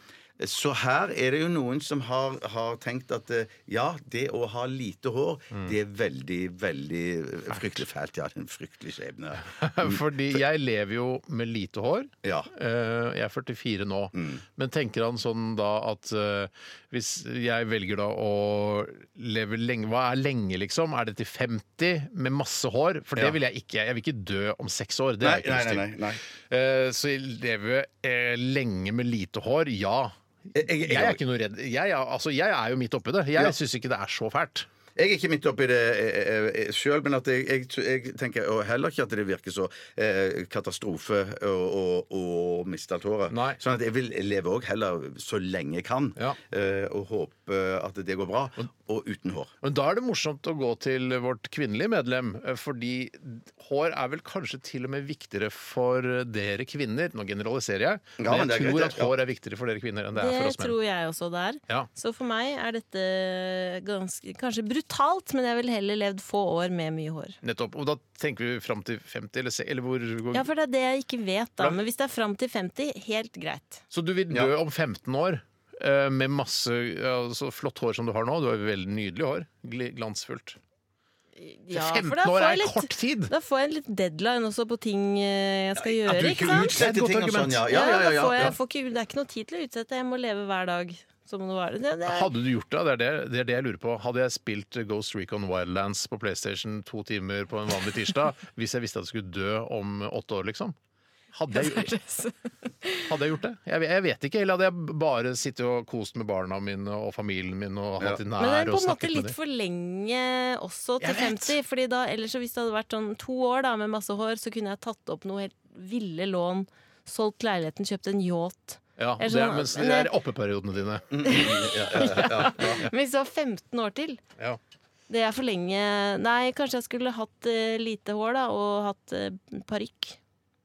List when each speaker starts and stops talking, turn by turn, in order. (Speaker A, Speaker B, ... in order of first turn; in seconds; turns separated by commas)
Speaker A: 0.4-10.4, Speaker B: 9.4-26.0, Speaker A: 12.2-12.5, Speaker A: 14.2-14.4, Speaker A: 25.2-26.2, Speaker B: 26.5-34.7, Speaker A: 30.6-31.2, Speaker A: 35.0-49.5, Speaker B: 43.3-43.6, Speaker B: 49.6-60.8, Speaker A: 58.2-59.1, Speaker C: 60.2-67.4, Speaker B: 67.4-70.5, Speaker C: 70.3-73.8, Speaker B: 73.9-80.6, Speaker C: 81.4-86.8, Speaker B: 81.7-83.3, Speaker A: 85.8-88.6, Speaker B: 86.6-87.7, Speaker C: 87.7-92.3, Speaker B: 92.1-100.8, Speaker B: 101.3-101.9, Speaker C: 101.5-103.1, Speaker B: 103.1-109.3, Speaker C: 108.4-120.1, Speaker B: 111.0-111.6, Speaker B: 119.0-121.4, Speaker A: 121.1-122.9, Speaker C: 121.3-124.2, Speaker B: 122.0-122.8, Speaker C: 125.1-130.2